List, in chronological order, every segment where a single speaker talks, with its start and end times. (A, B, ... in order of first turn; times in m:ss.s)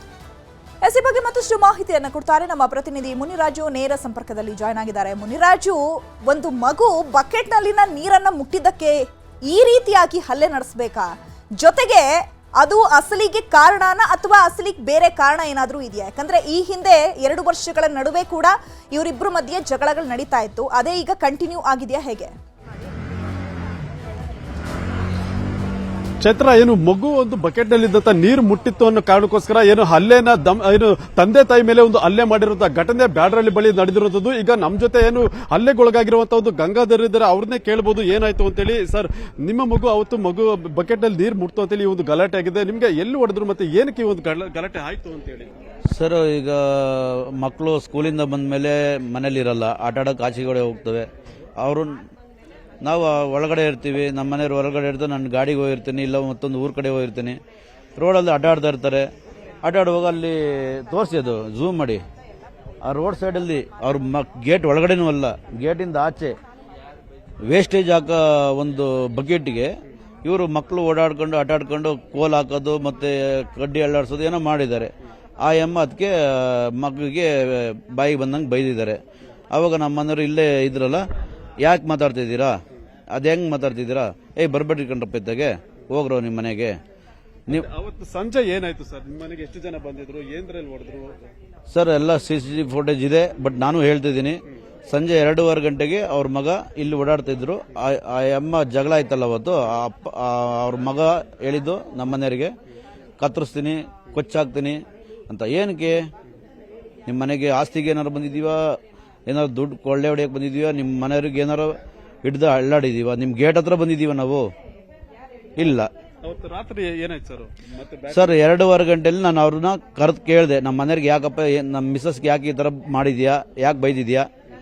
0:00.8-0:22.3 A
0:26.2-0:45.5 B
0:45.9-0:51.1 C
0:51.6-0:52.0 C
0:52.8-0:57.4 C
0:58.0-0:59.1 C
0:59.6-1:02.0 C
1:02.8-1:06.4 C
1:07.5-1:09.7 C
1:10.2-1:14.9 C
1:15.4-1:19.0 C
1:19.5-1:21.0 C
1:21.6-1:22.6 C
1:23.1-1:26.8 C
1:27.5-1:31.2 B
1:31.7-1:42.5 C
1:43.2-1:46.1 C
1:47.1-1:48.6 C
1:49.3-1:51.7 C
1:52.2-1:54.5 C
1:55.6-1:55.9 C
1:56.2-1:58.4 B
1:58.1-2:04.3 C